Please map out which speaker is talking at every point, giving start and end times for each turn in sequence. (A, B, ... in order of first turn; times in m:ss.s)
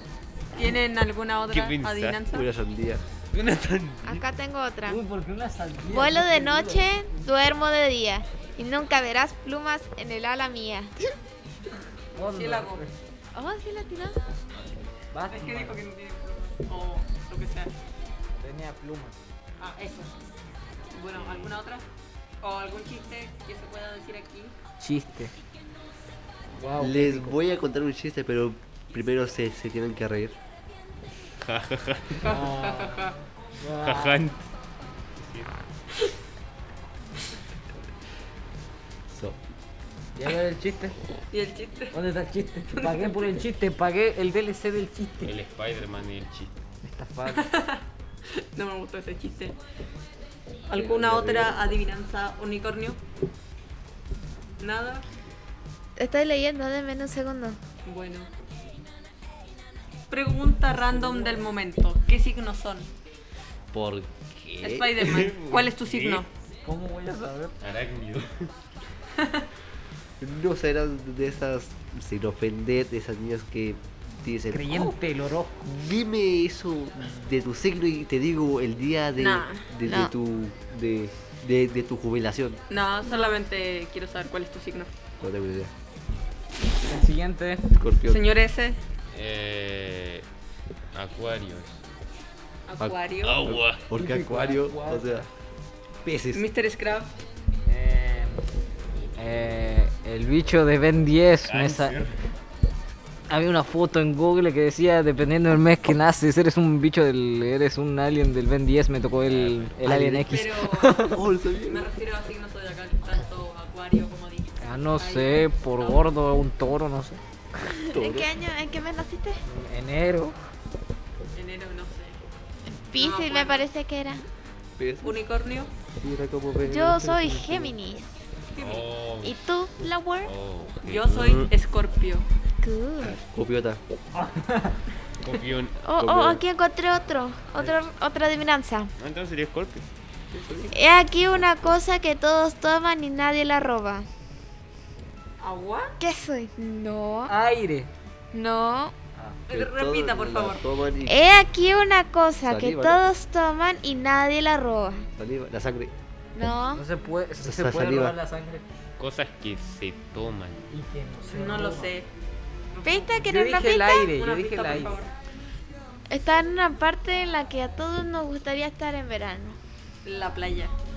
0:00.5-0:02.5 A
0:01.5-0:02.2 B
0:02.3-0:03.0 C
0:03.3-0:04.2 B
0:04.0-0:05.0 D
0:04.9-0:06.9 E
0:05.9-0:11.0 D
0:12.1-0:12.9 E
0:12.2-0:12.8 A
0:13.3-0:14.2 D
0:15.1-0:15.8 E
0:15.3-0:17.7 A
0:18.3-0:19.2 E
0:19.6-0:20.1 A
0:20.9-0:21.8 A
0:22.4-0:24.5 A
0:24.8-0:25.3 E
0:26.6-0:27.4 E
0:26.8-0:30.4 C
0:31.4-0:32.2 B
0:32.2-0:34.3 E
0:32.2-0:33.2 A
0:33.8-0:34.4 B
0:35.2-0:35.5 B
0:39.1-0:39.4 C
0:40.1-0:41.0 E
0:41.3-0:42.0 A
0:41.9-0:45.3 E
0:42.7-0:43.4 A
0:45.2-0:46.5 B
0:46.8-0:47.5 E
0:47.3-0:49.6 A
0:50.7-0:53.0 A
0:50.7-0:51.7 C
0:54.6-0:55.0 A
0:56.0-0:57.6 D
0:57.8-0:58.3 A
1:00.1-1:02.9 A
1:00.7-1:01.4 E
1:03.7-1:05.1 C
1:04.6-1:06.3 A
1:05.0-1:06.2 B
1:06.6-1:07.6 E
1:07.6-1:08.5 B
1:09.2-1:09.4 A
1:10.2-1:15.0 C
1:14.5-1:16.0 E
1:15.8-1:22.6 C
1:19.2-1:19.6 A
1:19.8-1:20.1 D
1:22.7-1:24.9 A
1:23.1-1:23.4 D
1:25.2-1:25.7 C
1:26.8-1:27.7 E
1:27.7-1:28.3 C
1:28.0-1:28.8 A
1:29.1-1:30.2 B
1:30.9-1:31.8 B
1:32.7-1:33.4 A
1:32.8-1:35.2 C
1:33.2-1:33.9 B
1:33.9-1:35.3 E
1:36.0-1:36.4 C
1:36.3-1:37.1 A
1:37.6-1:38.5 E
1:39.2-1:42.0 E
1:41.4-1:42.2 B
1:43.3-1:51.2 E
1:49.2-1:49.8 B
1:49.8-1:50.5 C
1:50.3-1:56.0 A
1:51.0-1:51.9 C
1:54.6-1:57.2 E
1:57.6-1:59.4 D
1:57.9-1:58.3 C
1:59.4-2:00.4 E
2:01.3-2:02.2 A
2:02.8-2:04.2 D
2:02.9-2:03.7 A
2:04.8-2:05.2 C
2:05.0-2:05.7 A
2:05.9-2:07.7 C
2:06.6-2:08.1 D
2:08.5-2:08.9 A
2:08.6-2:09.4 B
2:09.2-2:10.3 D
2:10.2-2:11.5 B
2:10.8-2:12.3 A
2:12.6-2:13.2 D
2:13.0-2:13.8 C
2:14.1-2:14.8 E
2:15.2-2:16.2 B
2:15.8-2:18.9 D
2:16.0-2:16.4 C
2:19.0-2:19.8 B
2:20.3-2:20.7 C
2:20.7-2:24.1 D
2:25.4-2:26.0 A
2:26.0-2:27.3 D
2:27.3-2:27.9 E
2:28.3-2:28.9 D
2:29.1-2:29.4 E
2:29.5-2:30.6 A
2:29.5-2:31.2 C
2:31.0-2:35.1 D
2:32.4-2:33.0 C
2:35.2-2:35.9 C
2:36.3-2:36.8 D
2:36.7-2:38.6 E
2:37.4-2:38.1 C
2:39.0-2:40.6 B
2:40.7-2:42.0 E
2:41.3-2:42.1 A
2:42.7-2:43.2 A
2:42.8-2:44.1 D
2:43.2-2:45.0 E
2:44.0-2:45.1 A
2:46.1-2:49.6 D
2:50.0-2:50.7 A